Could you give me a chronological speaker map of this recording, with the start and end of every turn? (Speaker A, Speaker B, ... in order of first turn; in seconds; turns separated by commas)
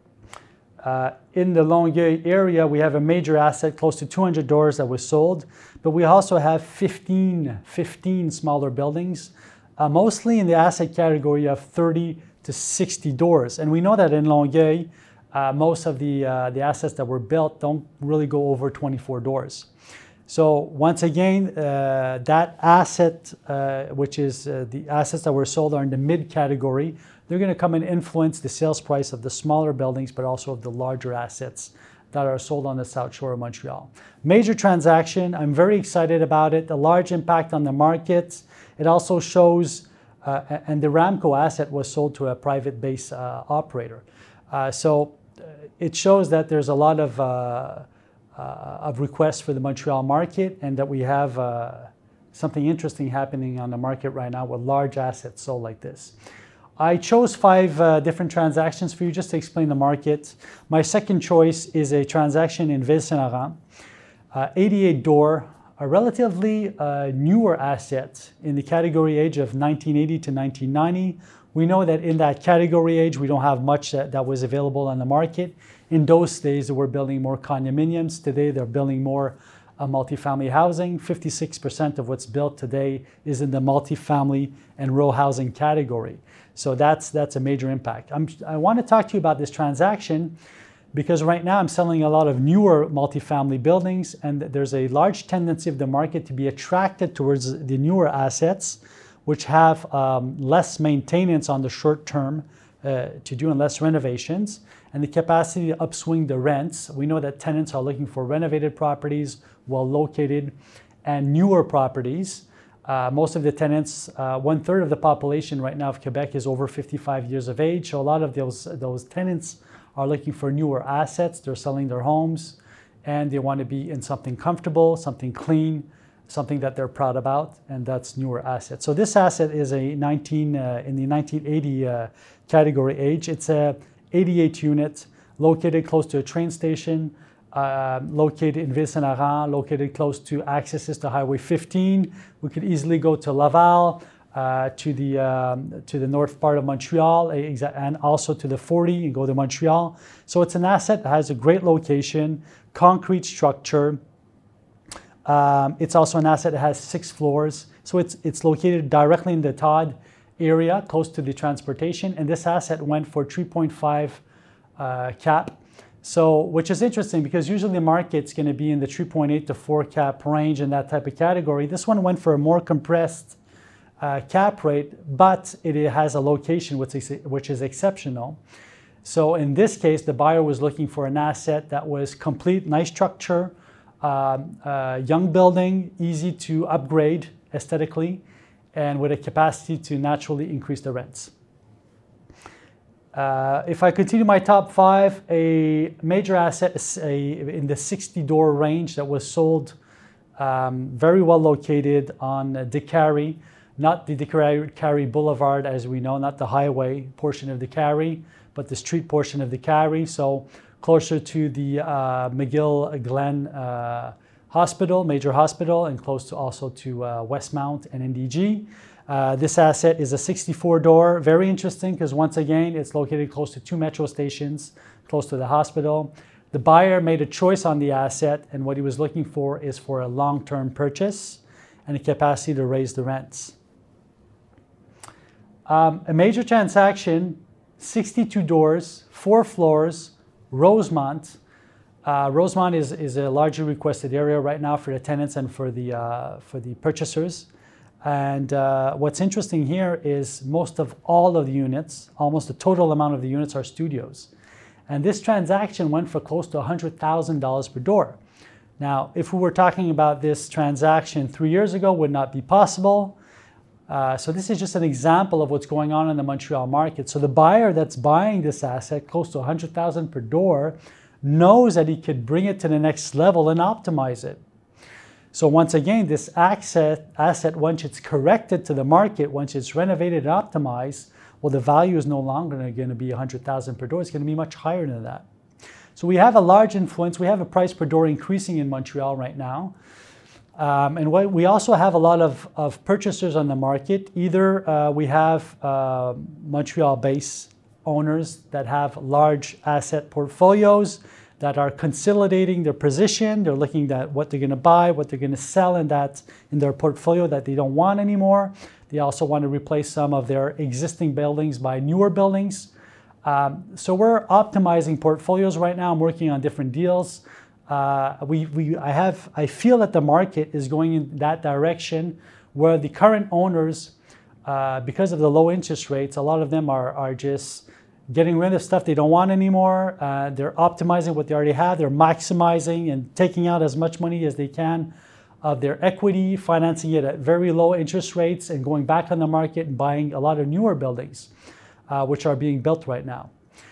Speaker A: 0.8-19.7, Speaker A: 20.3-45.2, Speaker A: 45.8-56.1, Speaker A: 56.8-63.6, Speaker A: 64.3-90.3, Speaker A: 90.9-154.0, Speaker A: 155.2-164.2, Speaker A: 164.8-173.4, Speaker A: 174.0-178.4, Speaker A: 179.0-188.2, Speaker A: 188.7-191.3, Speaker A: 193.1-199.7, Speaker A: 200.4-233.6, Speaker A: 235.7-241.4, Speaker A: 242.0-247.5, Speaker A: 248.0-254.3, Speaker A: 254.9-258.2, Speaker A: 258.8-263.2, Speaker A: 263.9-274.4, Speaker A: 275.3-285.2, Speaker A: 285.9-289.7, Speaker A: 290.6-312.7, Speaker A: 313.2-323.9, Speaker A: 324.4-334.9, Speaker A: 335.4-341.3, Speaker A: 341.9-343.3